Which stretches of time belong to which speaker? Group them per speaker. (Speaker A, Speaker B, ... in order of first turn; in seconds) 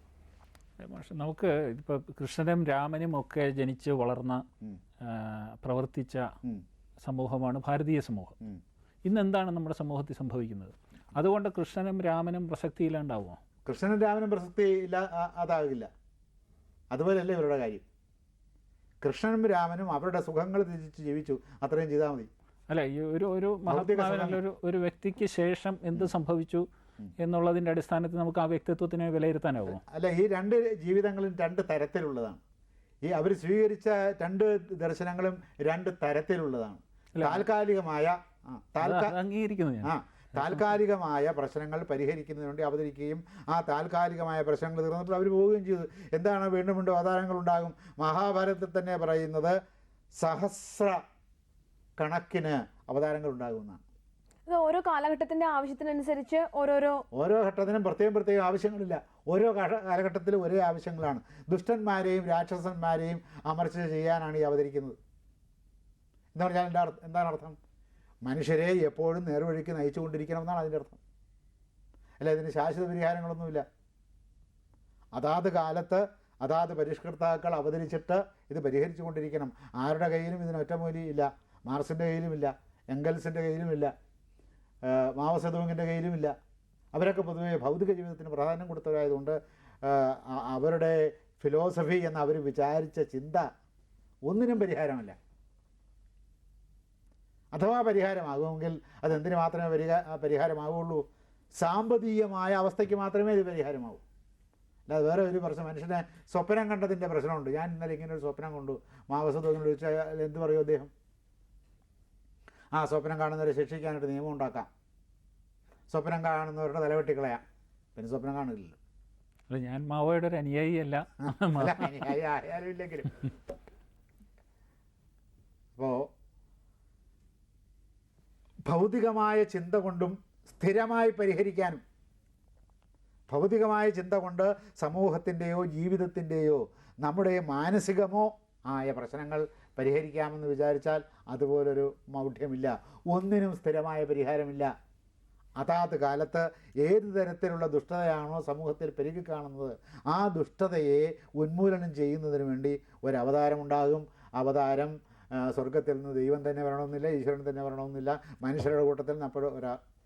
Speaker A: 0.8-4.4, 5.0-6.3, 7.0-8.4, 9.1-13.4, 22.7-26.6, 27.2-29.8, 37.1-37.5, 38.8-40.6, 119.5-122.1
Speaker B: 13.7-15.9, 16.9-17.8, 19.0-22.3, 23.7-24.4, 29.9-32.4, 33.0-39.2, 39.8-49.6, 50.2-51.0, 52.0-53.8, 57.1-65.0, 66.3-67.6, 68.2-71.0, 72.2-73.7, 75.1-83.9, 84.8-86.3, 86.9-93.5, 94.3-95.2, 97.5-101.0, 101.6-104.0, 104.9-110.9, 112.7-114.7, 115.9-117.4, 118.0-118.8, 121.2-123.2, 125.8-126.1, 128.7-131.8, 133.3-144.7, 145.6-159.8
Speaker C: 54.5-57.0